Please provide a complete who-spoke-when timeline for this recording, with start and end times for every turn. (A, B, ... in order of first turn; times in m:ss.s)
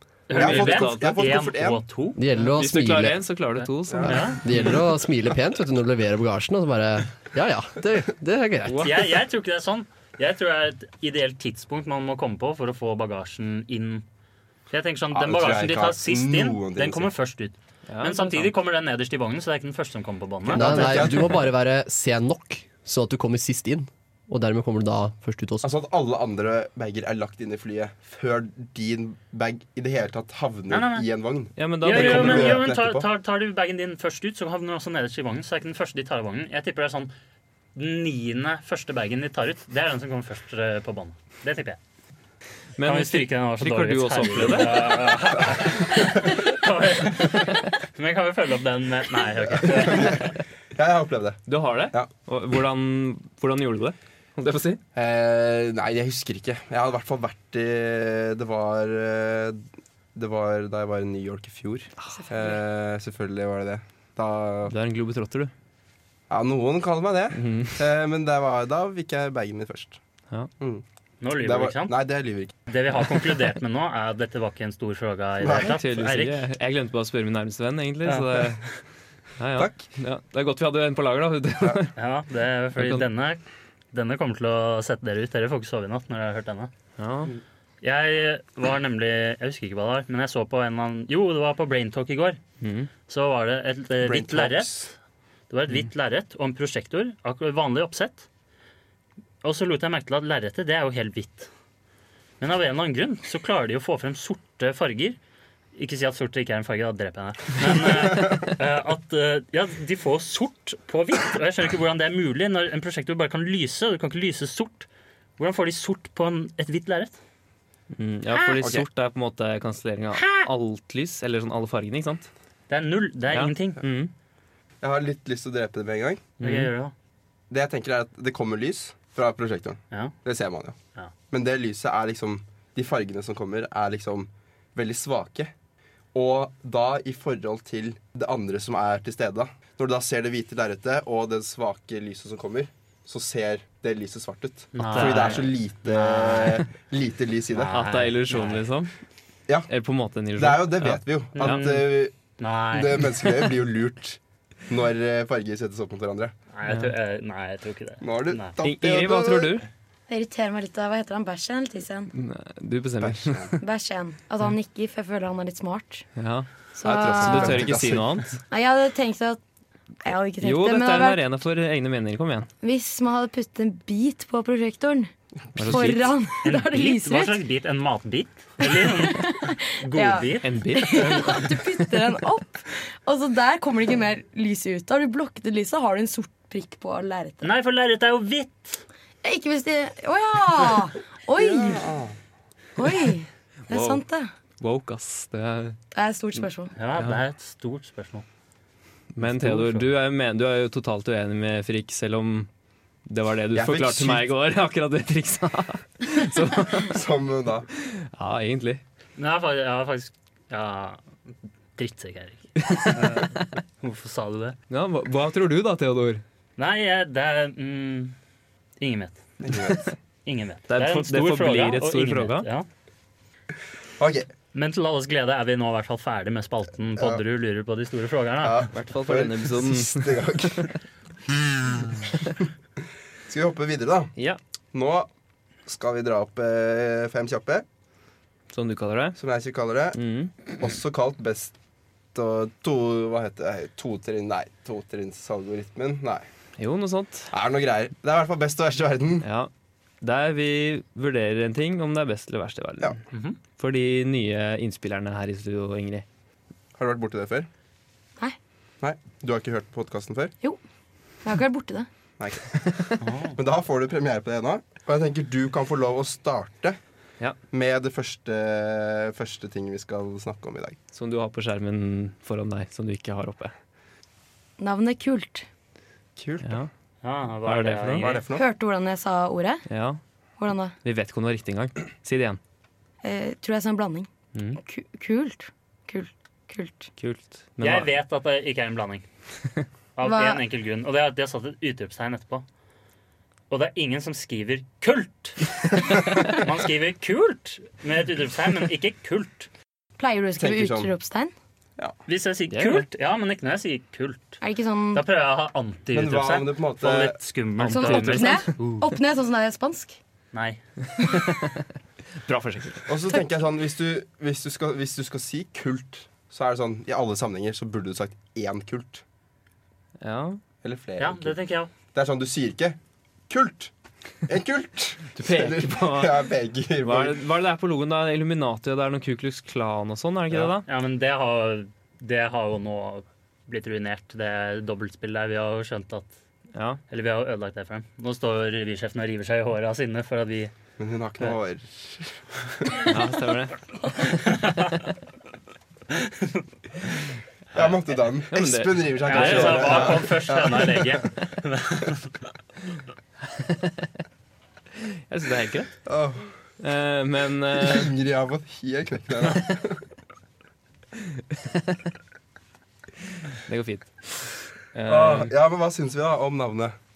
0:00.3-0:02.2 A
0:00.3-0:01.2 B
0:00.3-0:01.8 C
0:02.2-0:03.2 D
0:02.5-0:04.4 B
0:03.9-0:04.2 C
0:04.0-0:08.9 D
0:04.0-0:04.4 A
0:08.6-0:09.0 B
0:08.8-0:14.0 A
0:14.7-0:21.1 A
0:15.1-0:17.1 C
0:17.9-0:18.5 B
0:20.4-0:21.4 C
0:20.5-0:25.7 D
0:25.6-0:33.0 C
0:30.7-0:31.1 A
0:31.6-0:32.6 B
0:31.8-0:37.1 A
0:37.8-0:41.8 A
0:42.8-0:45.4 B
0:42.8-0:50.4 A
0:49.5-0:52.1 C
0:51.5-0:54.8 B
0:54.9-1:04.7 C
1:04.7-1:05.5 B
1:06.3-1:10.0 C
1:07.4-1:07.8 B
1:11.2-1:12.0 A
1:11.4-1:12.5 C
1:12.7-1:16.4 A
1:15.4-1:15.7 C
1:15.5-1:18.6 B
1:18.0-1:18.5 A
1:19.4-1:21.9 B
1:19.6-1:19.9 C
1:22.0-1:23.4 A
1:22.8-1:23.0 B
1:23.9-1:26.7 A
1:27.0-1:27.3 B
1:27.8-1:32.4 A
1:32.6-1:32.9 B
1:33.1-1:34.9 A
1:34.0-1:34.9 C
1:35.5-1:38.2 A
1:39.4-1:41.5 A
1:42.4-1:45.2 A
1:45.7-1:57.2 A
1:57.9-2:02.3 B
2:00.2-2:00.5 A
2:02.7-2:03.8 A
2:03.3-2:04.1 B
2:04.8-2:06.3 C
2:06.4-2:06.7 B
2:06.4-2:06.9 A
2:07.5-2:10.8 C
2:11.3-2:15.5 C
2:16.1-2:27.8 C
2:24.7-2:26.6 A
2:24.8-2:25.4 B
2:27.5-2:28.6 A
2:27.7-2:28.9 B
2:29.7-2:31.7 B
2:30.4-2:32.2 C
2:31.4-2:33.3 A
2:32.7-2:36.3 C
2:36.5-2:38.6 A
2:36.7-2:36.9 B
2:38.0-2:39.6 C
2:38.6-2:39.6 B
2:40.1-2:42.1 E
2:42.1-2:43.6 B
2:43.0-2:43.5 C
2:43.6-2:46.0 E
2:46.2-2:48.4 B
2:46.7-2:47.7 E
2:46.8-2:48.3 C
2:48.5-2:49.4 E
2:50.0-2:51.2 E
2:50.4-2:52.5 B
2:52.6-2:57.4 E
2:55.6-2:56.1 B
2:56.4-3:00.5 A
2:58.6-3:07.5 E
3:00.4-3:01.5 B
3:07.4-3:08.8 A
3:09.2-3:11.8 E
3:11.4-3:12.1 C
3:12.8-3:14.3 E
3:13.7-3:14.0 B
3:14.6-3:15.8 B
3:15.9-3:16.7 E
3:16.8-3:18.2 A
3:16.9-3:17.2 B
3:19.1-3:22.5 B
3:19.2-3:19.8 A
3:23.0-3:27.0 B
3:23.5-3:24.3 C
3:26.7-3:27.7 C
3:27.8-3:28.8 B
3:29.2-3:31.0 A
3:31.8-3:34.6 A
3:32.6-3:33.6 B
3:34.7-3:36.2 B
3:36.6-3:38.2 A
3:38.8-3:39.2 A
3:39.4-3:39.9 C
3:40.2-3:42.6 A
3:40.7-3:42.5 B
3:44.0-3:44.3 C
3:44.5-3:48.7 A
3:48.4-3:50.7 C
3:48.7-3:50.7 B
3:53.3-3:54.1 C
3:54.7-3:55.1 C
3:55.6-3:57.6 C
3:58.5-3:59.2 B
3:59.2-4:00.0 C
3:59.9-4:00.3 B
4:00.6-4:01.5 C
4:02.1-4:06.2 C
4:06.6-4:07.3 B
4:07.3-4:09.2 C
4:09.2-4:09.5 B
4:10.0-4:13.0 B
4:13.1-4:13.4 A
4:13.6-4:16.0 B
4:16.8-4:17.5 C
4:18.8-4:20.3 C
4:21.2-4:21.9 E
4:22.2-4:26.8 C
4:23.0-4:23.4 A
4:27.5-4:30.8 C
4:30.9-4:33.5 B
4:34.6-4:35.5 E
4:36.2-4:36.6 C
4:36.4-4:36.7 B
4:37.0-4:38.2 A
4:37.4-4:38.1 B
4:38.0-4:38.4 C
4:38.3-4:39.6 E
4:39.7-4:40.0 B
4:40.4-4:40.8 E
4:40.8-4:42.4 B
4:43.0-4:46.9 E
4:44.3-4:44.6 B
4:47.0-4:47.9 B
4:47.6-4:49.0 A
4:50.0-4:52.4 A
4:50.0-4:50.4 E
4:53.5-4:59.5 A
5:00.0-5:01.3 E
5:00.4-5:00.9 C
5:02.1-5:04.4 A
5:02.5-5:02.8 B
5:04.4-5:05.0 E
5:04.9-5:08.8 A
5:05.9-5:07.2 C
5:07.6-5:08.8 B
5:07.7-5:10.0 E
5:10.3-5:10.6 A
5:11.1-5:11.5 B
5:12.2-5:12.9 B
5:12.9-5:19.0 C
5:20.0-5:20.4 B
5:20.6-5:21.4 C
5:21.0-5:21.7 A
5:21.9-5:22.8 C
5:23.3-5:23.7 C
5:24.2-5:27.2 C
5:25.1-5:26.2 B
5:26.8-5:30.6 B
5:30.6-5:36.1 A
5:36.5-5:36.8 B
5:36.9-5:40.5 A
5:40.8-5:42.9 C
5:42.8-5:44.8 B
5:44.2-5:44.6 A
5:45.9-5:46.4 A
5:47.5-5:51.0 C
5:48.3-5:50.1 B
5:49.0-5:52.1 A
5:53.3-5:53.9 B
5:54.8-5:55.7 B
5:55.8-5:56.3 C
5:56.6-5:57.9 B
5:57.5-5:59.8 C
6:01.0-6:01.8 B
6:03.3-6:05.3 B
6:04.8-6:06.7 C